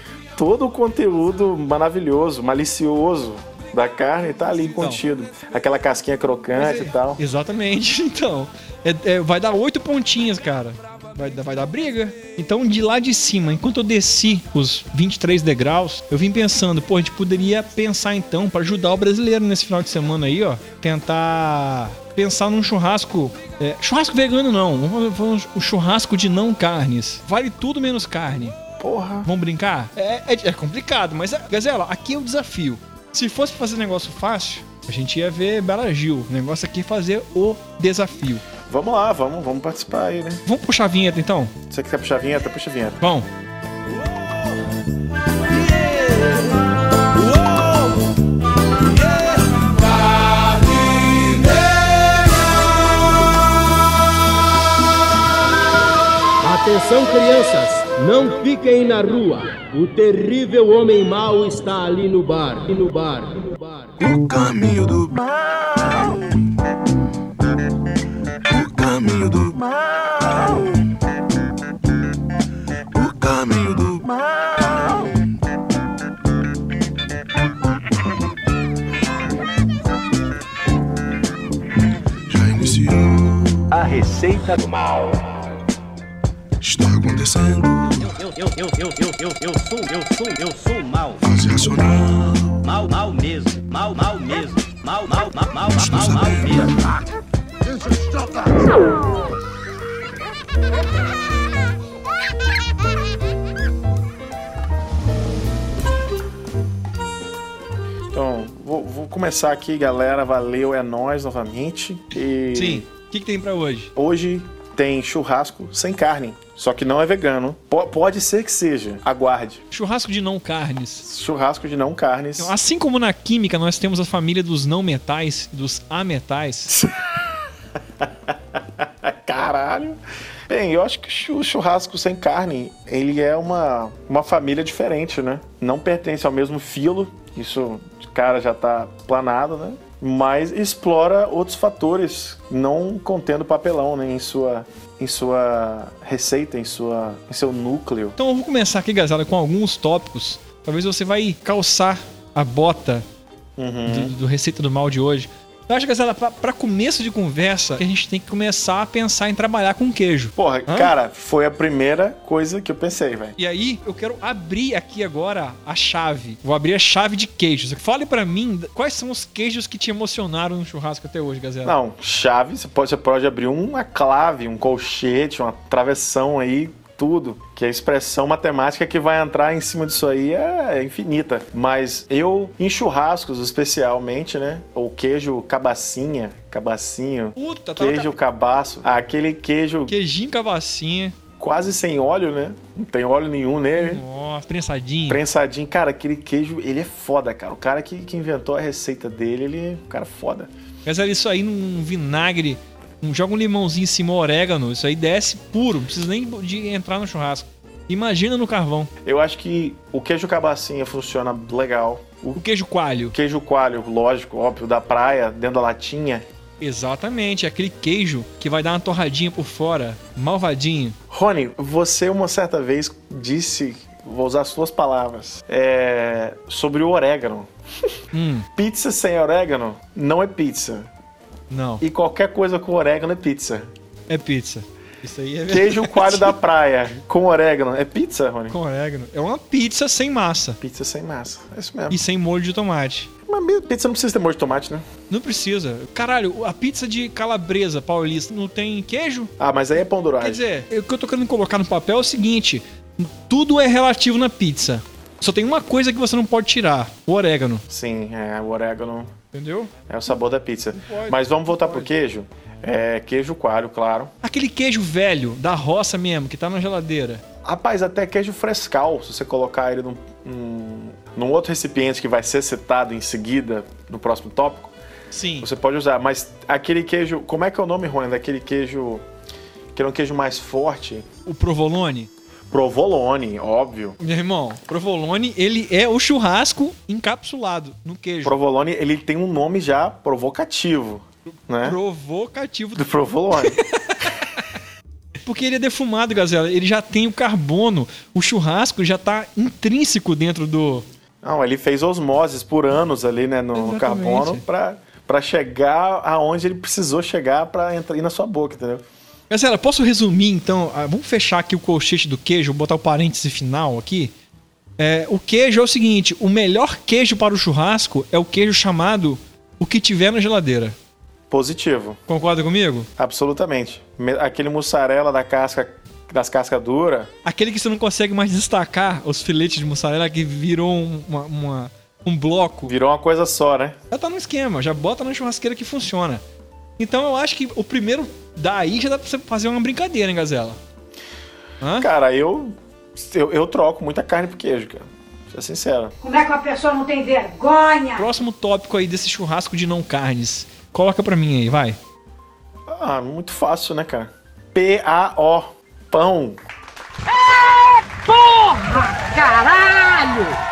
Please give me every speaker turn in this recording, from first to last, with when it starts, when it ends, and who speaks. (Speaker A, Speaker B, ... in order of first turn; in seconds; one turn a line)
Speaker A: 0.3-7.2
Speaker B: 4.8-5.0
Speaker B: 6.6-28.6
Speaker A: 28.8-29.3
Speaker B: 29.2-38.4
Speaker A: 38.7-40.4
Speaker B: 40.5-41.5
Speaker A: 41.7-43.0
Speaker B: 43.0-43.3
Speaker C: 56.4-64.0
Speaker D: 64.0-66.3
Speaker D: 68.5-70.8
Speaker D: 72.9-75.2
Speaker D: 82.3-83.8
Speaker E: 84.5-85.0
Speaker D: 86.6-88.2
Speaker E: 88.0-91.2
Speaker D: 91.2-92.6
Speaker E: 92.6-96.8
Speaker D: 95.7-96.9
Speaker A: 108.1-112.9
Speaker B: 112.5-113.9
Speaker A: 114.0-119.6
Speaker B: 119.7-121.1
Speaker A: 121.0-122.5
Speaker B: 122.4-126.8
Speaker A: 126.8-127.2
Speaker A: 128.0-148.2
Speaker B: 148.2-153.1
Speaker A: 153.6-154.1
Speaker B: 153.9-160.9
Speaker A: 160.4-163.3
Speaker B: 163.4-171.8
Speaker A: 171.6-189.9
Speaker B: 187.4-188.1
Speaker B: 189.9-191.2
Speaker A: 191.4-194.0
Speaker B: 193.8-195.2
Speaker A: 195.1-200.5
Speaker B: 200.9-208.9
Speaker A: 209.0-212.4
Speaker B: 212.3-213.2
Speaker A: 213.1-216.3
Speaker B: 216.6-221.0
Speaker A: 221.1-227.9
Speaker B: 228.1-228.5
Speaker A: 228.6-230.9
Speaker B: 231.5-231.8
Speaker A: 231.8-233.7
Speaker B: 234.1-236.4
Speaker A: 235.5-238.6
Speaker B: 238.5-240.6
Speaker A: 240.6-242.0
Speaker B: 241.9-243.1
Speaker A: 243.3-244.9
Speaker B: 245.1-249.3
Speaker A: 249.4-250.4
Speaker B: 250.2-257.6
Speaker A: 257.7-259.1
Speaker B: 259.3-259.7
Speaker A: 259.9-264.1
Speaker B: 260.8-261.9
Speaker B: 264.2-267.2
Speaker A: 267.4-274.7
Speaker B: 275.1-275.5
Speaker A: 275.4-279.1
Speaker A: 279.7-281.1
Speaker B: 281.3-282.1
Speaker A: 282.5-284.0
Speaker B: 284.0-288.4
Speaker A: 288.2-291.8
Speaker B: 291.6-294.5
Speaker A: 292.8-293.6
Speaker B: 295.2-300.9
Speaker A: 301.2-308.8
Speaker B: 303.5-304.4
Speaker B: 309.3-314.1
Speaker B: 314.8-320.8
Speaker A: 321.3-322.0
Speaker B: 322.1-322.9
Speaker A: 323.0-327.1
Speaker B: 327.2-332.7
Speaker A: 332.6-333.8
Speaker B: 333.9-336.2
Speaker B: 336.8-340.6
Speaker B: 341.6-341.9
Speaker A: 341.8-345.9
Speaker F: 346.0-348.0
Speaker B: 347.9-351.8
Speaker A: 352.7-356.4
Speaker F: 357.2-360.4